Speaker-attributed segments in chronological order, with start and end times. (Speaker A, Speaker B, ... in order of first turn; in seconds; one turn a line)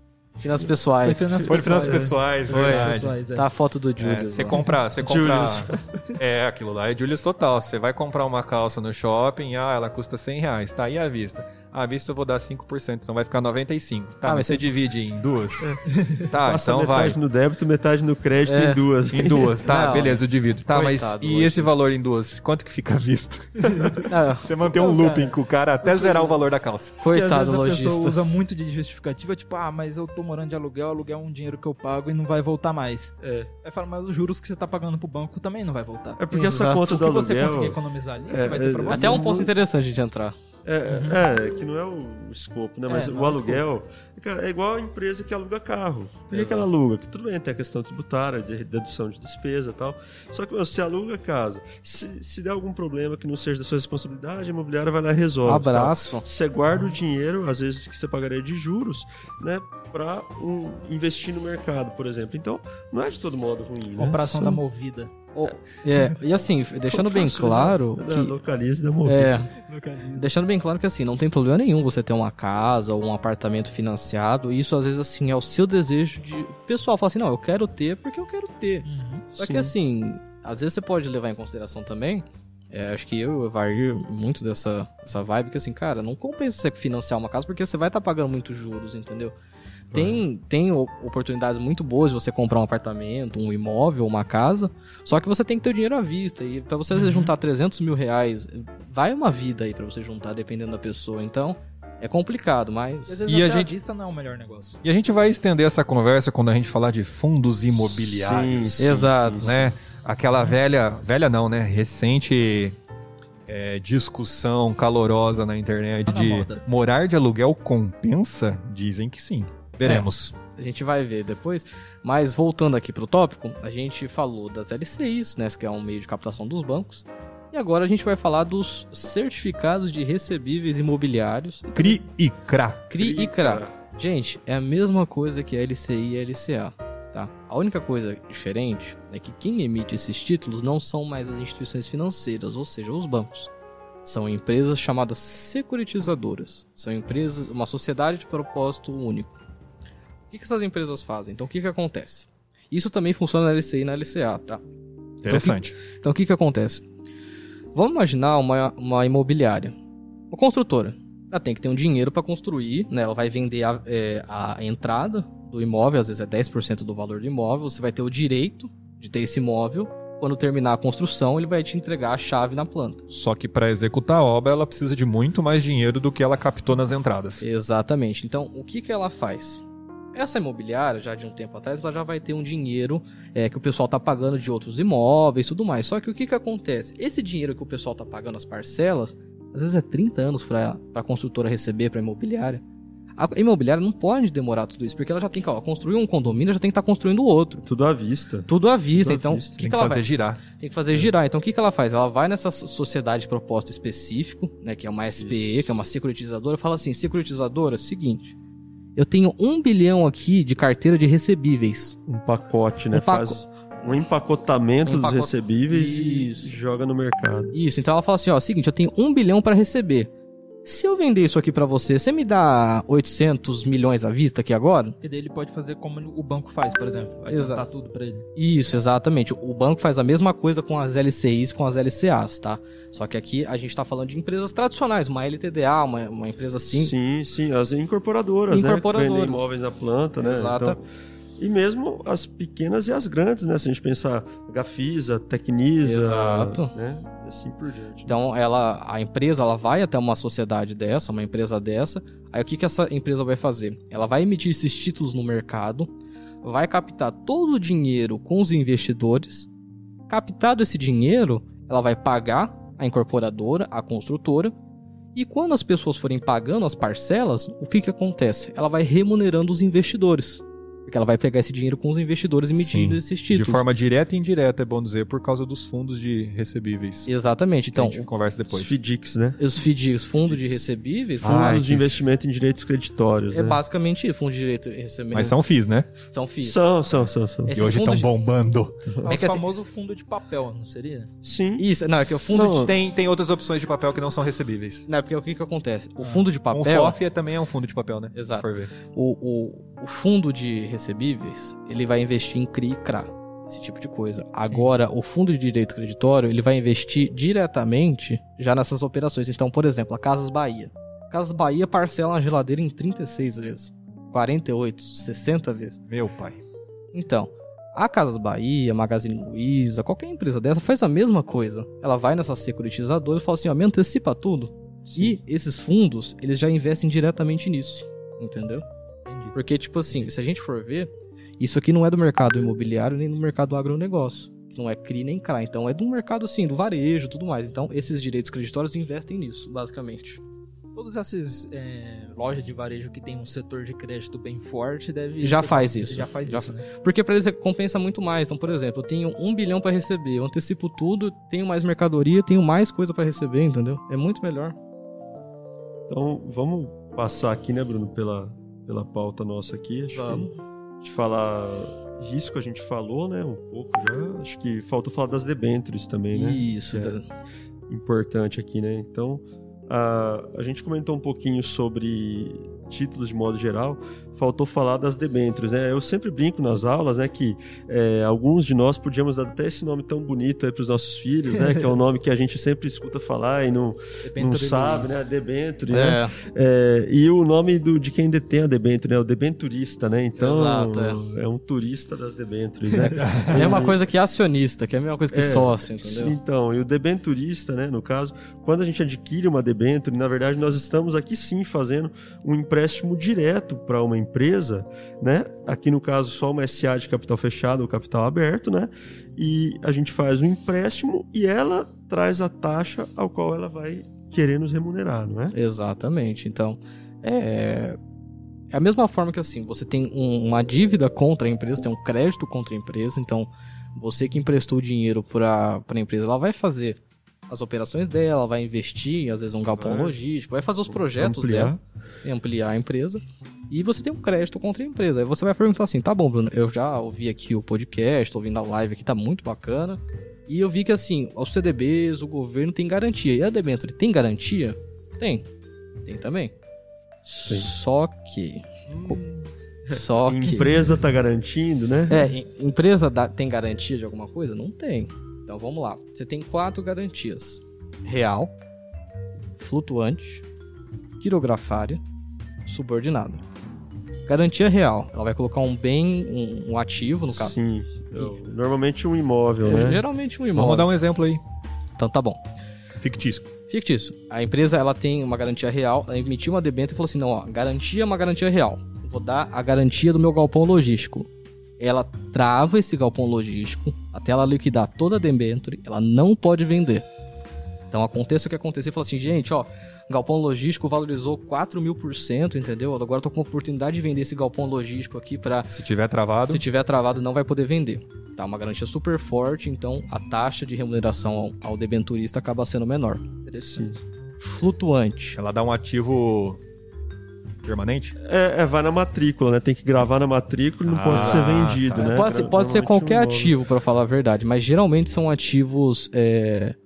Speaker A: 0.4-4.6
Speaker B: 1.0-3.5
Speaker C: 1.4-3.2
Speaker C: 4.0-17.2
Speaker D: 5.0-5.9
Speaker A: 14.2-14.6
Speaker D: 15.6-19.6
Speaker A: 18.4-18.8
Speaker C: 19.1-26.9
Speaker A: 19.6-21.8
Speaker B: 23.7-24.0
Speaker A: 24.1-24.5
Speaker B: 24.6-26.4
Speaker A: 27.0-28.2
Speaker B: 27.1-39.3
Speaker D: 33.2-33.5
Speaker D: 36.2-39.5
Speaker A: 36.3-36.9
Speaker A: 38.9-40.4
Speaker D: 40.6-64.6
Speaker B: 40.9-41.2
Speaker B: 42.9-43.6
Speaker A: 46.3-46.7
Speaker A: 55.4-56.2
Speaker B: 56.7-57.0
Speaker B: 64.0-65.1
Speaker A: 65.3-68.3
Speaker D: 66.9-69.4
Speaker A: 69.0-69.5
Speaker B: 69.6-70.3
Speaker A: 70.1-89.3
Speaker B: 78.8-79.3
Speaker D: 79.4-79.7
Speaker D: 89.9-90.2
Speaker A: 89.9-103.2
Speaker B: 96.9-97.3
Speaker B: 103.1-104.8
Speaker C: 103.2-103.7
Speaker C: 104.8-112.8
Speaker D: 107.7-109.6
Speaker A: 108.8-109.7
Speaker C: 113.5-120.3
Speaker B: 116.1-116.6
Speaker A: 119.8-132.0
Speaker C: 131.7-132.9
Speaker A: 132.9-143.5
Speaker D: 132.9-133.8
Speaker A: 144.0-149.4
Speaker A: 150.3-154.6
Speaker C: 155.2-155.8
Speaker A: 155.3-156.8
Speaker A: 157.7-159.7
Speaker A: 160.3-173.1
Speaker C: 173.1-177.4
Speaker A: 177.4-179.6
Speaker A: 180.1-192.6
Speaker A: 193.2-197.6
Speaker D: 197.6-199.7
Speaker A: 198.5-208.3
Speaker C: 199.6-200.4
Speaker D: 205.2-205.8
Speaker A: 208.9-211.9
Speaker D: 212.1-217.6
Speaker A: 212.9-213.4
Speaker A: 214.8-216.5
Speaker A: 217.5-220.1
Speaker A: 220.6-224.9
Speaker B: 225.0-228.3
Speaker A: 227.3-227.7
Speaker A: 228.3-236.9
Speaker D: 236.7-240.8
Speaker A: 238.5-239.4
Speaker A: 240.2-240.8
Speaker D: 241.4-248.2
Speaker A: 245.8-246.7
Speaker A: 248.1-259.5
Speaker A: 260.1-264.5
Speaker A: 265.1-273.6
Speaker C: 272.6-277.1
Speaker A: 277.1-278.1
Speaker C: 277.7-278.7
Speaker D: 278.5-279.4
Speaker A: 279.4-281.6
Speaker C: 281.2-282.0
Speaker D: 281.2-283.6
Speaker A: 283.3-285.4
Speaker C: 285.1-285.9
Speaker A: 286.1-286.6
Speaker D: 286.4-287.6
Speaker A: 287.5-288.1
Speaker C: 287.5-288.9
Speaker B: 289.0-291.1
Speaker A: 289.1-289.4
Speaker D: 291.2-291.6
Speaker A: 291.6-292.7
Speaker C: 292.2-294.9
Speaker D: 292.2-292.8
Speaker A: 294.9-297.0
Speaker B: 296.0-296.3
Speaker C: 296.5-298.7
Speaker A: 298.1-315.8
Speaker B: 304.5-304.7
Speaker C: 315.9-316.4
Speaker A: 316.9-328.6
Speaker C: 324.9-325.2
Speaker B: 329.1-329.3
Speaker A: 329.3-340.2
Speaker B: 340.7-346.7
Speaker A: 345.2-354.6
Speaker D: 355.9-360.3
Speaker A: 359.9-360.4
Speaker D: 360.8-367.0
Speaker A: 366.1-367.1
Speaker D: 367.7-393.8
Speaker B: 381.4-381.6
Speaker B: 384.0-385.1
Speaker A: 385.7-386.1
Speaker A: 390.2-391.0
Speaker A: 392.7-396.2
Speaker C: 393.0-393.5
Speaker D: 395.1-415.3
Speaker A: 415.3-417.8
Speaker A: 418.5-445.3
Speaker D: 429.5-430.0
Speaker D: 430.7-431.6
Speaker A: 445.8-446.3
Speaker A: 447.1-449.0
Speaker D: 447.2-447.5
Speaker C: 448.7-449.3
Speaker D: 449.7-452.1
Speaker A: 449.7-450.6
Speaker A: 451.9-458.3
Speaker A: 459.4-460.2
Speaker A: 461.0-461.8
Speaker A: 462.4-463.2
Speaker A: 464.1-467.3
Speaker D: 467.1-469.8
Speaker A: 469.4-470.7
Speaker C: 470.3-471.2
Speaker A: 471.8-472.2
Speaker C: 472.8-473.3
Speaker A: 473.5-486.9
Speaker A: 487.7-495.5
Speaker C: 495.4-496.4
Speaker A: 496.3-503.0
Speaker B: 503.2-503.8
Speaker D: 503.4-503.8
Speaker A: 504.2-505.2
Speaker C: 505.1-506.4
Speaker C: 507.4-507.9
Speaker D: 508.0-513.4
Speaker C: 510.6-511.9
Speaker A: 510.9-516.5